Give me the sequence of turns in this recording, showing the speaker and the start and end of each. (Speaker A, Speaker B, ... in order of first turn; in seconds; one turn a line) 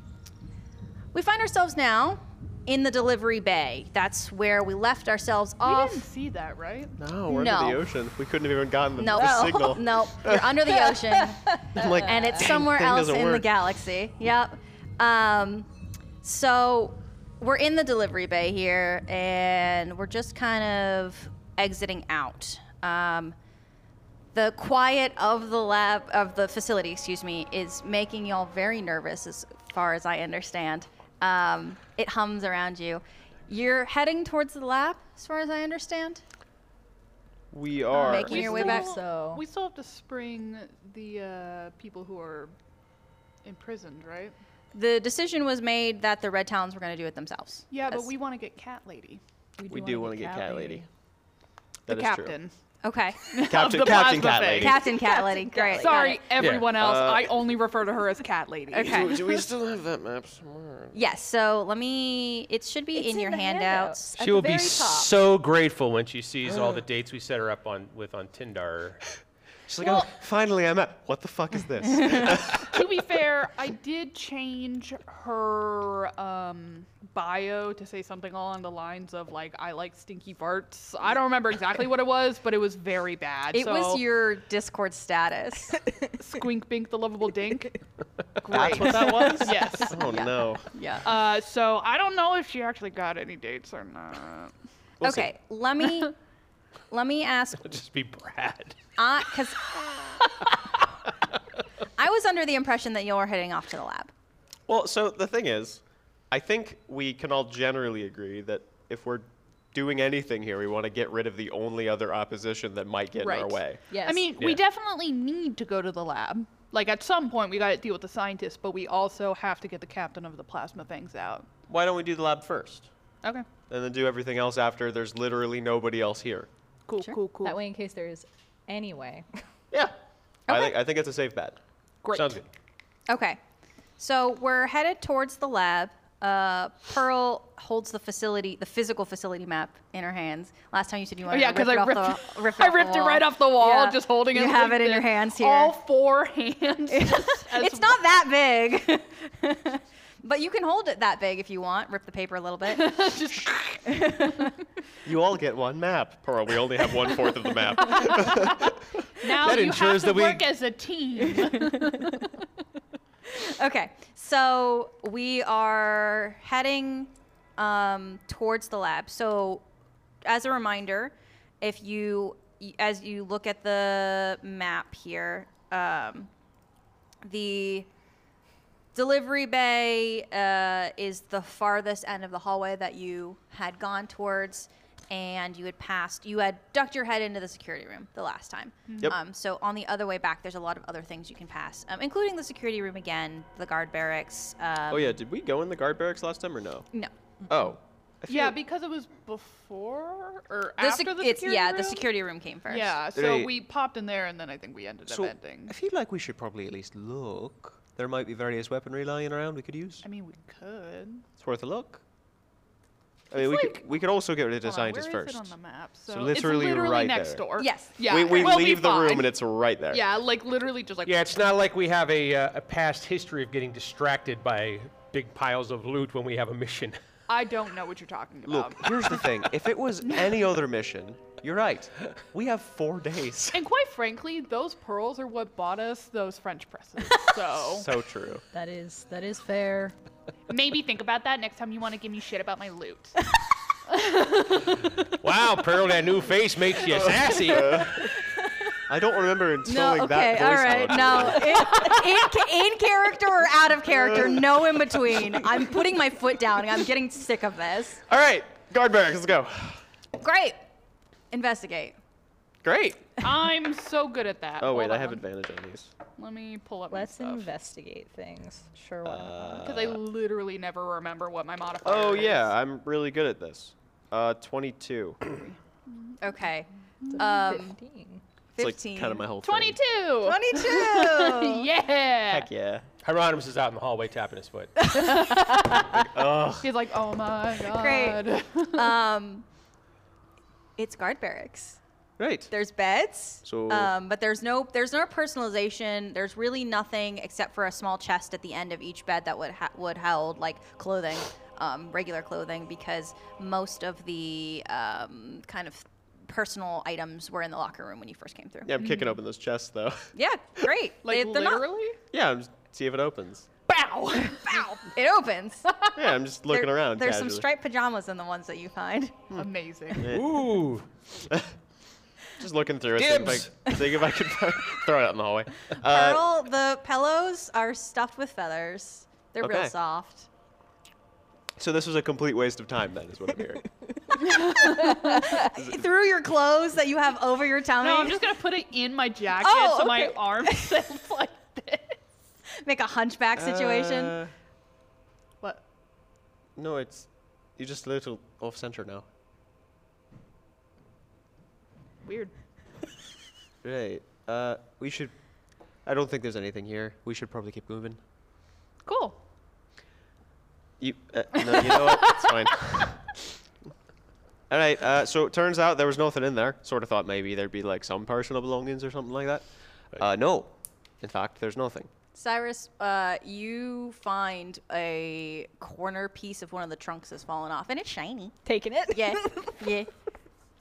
Speaker A: 1.1-6.0
Speaker B: 5.6-7.0
Speaker C: 7.0-10.9
Speaker A: 7.3-7.8
Speaker A: 9.0-15.7
Speaker D: 10.9-12.4
Speaker C: 11.7-13.5
Speaker A: 16.2-23.4
Speaker A: 24.3-36.2
Speaker C: 37.5-38.8
Speaker A: 38.0-38.9
Speaker B: 38.0-42.5
Speaker D: 38.1-39.4
Speaker B: 43.4-44.4
Speaker A: 44.7-48.1
Speaker B: 47.7-50.8
Speaker D: 49.6-50.5
Speaker C: 49.7-50.9
Speaker C: 51.9-52.4
Speaker B: 51.9-52.5
Speaker A: 52.8-53.2
Speaker B: 53.3-59.4
Speaker C: 53.5-54.8
Speaker A: 54.6-56.2
Speaker D: 55.0-56.2
Speaker E: 56.4-56.7
Speaker C: 56.8-57.5
Speaker A: 58.7-59.2
Speaker C: 58.9-61.0
Speaker A: 60.9-64.1
Speaker D: 62.9-65.1
Speaker E: 64.2-69.1
Speaker C: 69.7-72.7
Speaker B: 69.8-70.1
Speaker B: 72.5-84.0
Speaker A: 83.5-85.9
Speaker B: 86.2-87.8
Speaker B: 88.4-90.0
Speaker C: 88.5-90.7
Speaker A: 89.2-91.1
Speaker B: 91.0-94.5
Speaker C: 95.0-95.3
Speaker A: 95.0-96.2
Speaker A: 96.9-97.7
Speaker E: 97.6-98.8
Speaker A: 99.0-100.3
Speaker A: 102.0-104.1
Speaker C: 104.7-113.8
Speaker B: 113.2-121.5
Speaker D: 113.9-114.3
Speaker C: 121.7-122.9
Speaker C: 123.7-126.5
Speaker B: 126.9-127.6
Speaker D: 127.4-129.4
Speaker A: 130.5-130.8
Speaker C: 130.5-131.6
Speaker B: 132.0-132.4
Speaker E: 132.1-132.5
Speaker A: 133.1-133.4
Speaker A: 134.0-145.7
Speaker B: 141.3-148.0
Speaker A: 146.9-154.6
Speaker B: 152.7-153.8
Speaker C: 155.1-158.8
Speaker B: 157.8-158.7
Speaker B: 159.2-162.3
Speaker E: 159.4-160.6
Speaker A: 161.5-162.0
Speaker A: 163.3-169.6
Speaker A: 170.2-176.3
Speaker A: 177.2-177.9
Speaker A: 178.9-195.2
Speaker B: 188.9-189.2
Speaker C: 194.9-196.9
Speaker C: 197.5-198.6
Speaker B: 198.3-202.1
Speaker A: 200.8-203.0
Speaker B: 202.7-205.7
Speaker C: 203.1-203.6
Speaker C: 205.1-210.1
Speaker B: 210.0-211.2
Speaker C: 211.4-212.0
Speaker C: 213.3-215.5
Speaker B: 213.3-213.8
Speaker B: 214.6-219.3
Speaker C: 216.1-220.0
Speaker A: 217.6-218.6
Speaker B: 219.9-221.2
Speaker E: 221.1-227.0
Speaker B: 227.3-229.3
Speaker C: 228.4-233.7
Speaker B: 233.5-237.9
Speaker C: 237.6-238.4
Speaker D: 238.5-239.9
Speaker B: 240.5-243.2
Speaker B: 243.9-244.8
Speaker E: 245.0-248.1
Speaker C: 246.9-248.1
Speaker C: 248.9-251.9
Speaker A: 249.7-258.0
Speaker C: 253.9-255.7
Speaker C: 258.1-259.8
Speaker A: 260.2-260.6
Speaker A: 261.3-261.9
Speaker C: 262.6-263.1
Speaker B: 263.2-265.2
Speaker C: 264.6-265.9
Speaker B: 266.2-267.5
Speaker D: 266.9-269.7
Speaker C: 269.0-270.0
Speaker B: 269.6-272.5
Speaker C: 271.8-275.2
Speaker B: 275.3-276.2
Speaker A: 276.2-277.8
Speaker D: 277.2-278.2
Speaker A: 278.5-279.3
Speaker C: 278.6-279.8
Speaker B: 279.4-282.5
Speaker A: 280.2-281.7
Speaker C: 282.3-282.9
Speaker E: 283.0-285.0
Speaker A: 284.8-285.7
Speaker C: 286.0-286.7
Speaker B: 286.6-288.9
Speaker A: 287.7-289.4
Speaker A: 290.8-291.8
Speaker C: 292.2-292.5
Speaker A: 292.5-308.7
Speaker C: 293.4-293.9
Speaker C: 308.6-310.7
Speaker B: 308.8-309.1
Speaker A: 310.1-311.6
Speaker B: 311.0-312.0
Speaker C: 312.1-313.5
Speaker B: 313.7-314.8
Speaker A: 314.2-315.9
Speaker C: 315.9-317.4
Speaker A: 316.5-319.2
Speaker C: 319.3-320.4
Speaker B: 319.3-320.1
Speaker E: 320.0-320.9
Speaker C: 321.1-321.5
Speaker C: 322.4-326.3
Speaker E: 323.0-323.6
Speaker A: 325.8-330.3
Speaker C: 329.4-329.7
Speaker C: 331.6-333.6
Speaker A: 334.1-338.3
Speaker B: 334.4-334.9
Speaker C: 335.4-335.8
Speaker B: 337.8-342.1
Speaker A: 339.4-340.6
Speaker A: 342.6-344.2
Speaker C: 343.3-344.3
Speaker C: 346.6-349.1
Speaker B: 352.0-352.3
Speaker C: 353.6-355.1
Speaker C: 355.8-358.0
Speaker B: 358.8-359.2
Speaker C: 360.8-363.1
Speaker B: 361.5-362.5
Speaker C: 364.5-371.9
Speaker A: 372.1-378.4
Speaker D: 378.4-379.6
Speaker A: 378.9-379.9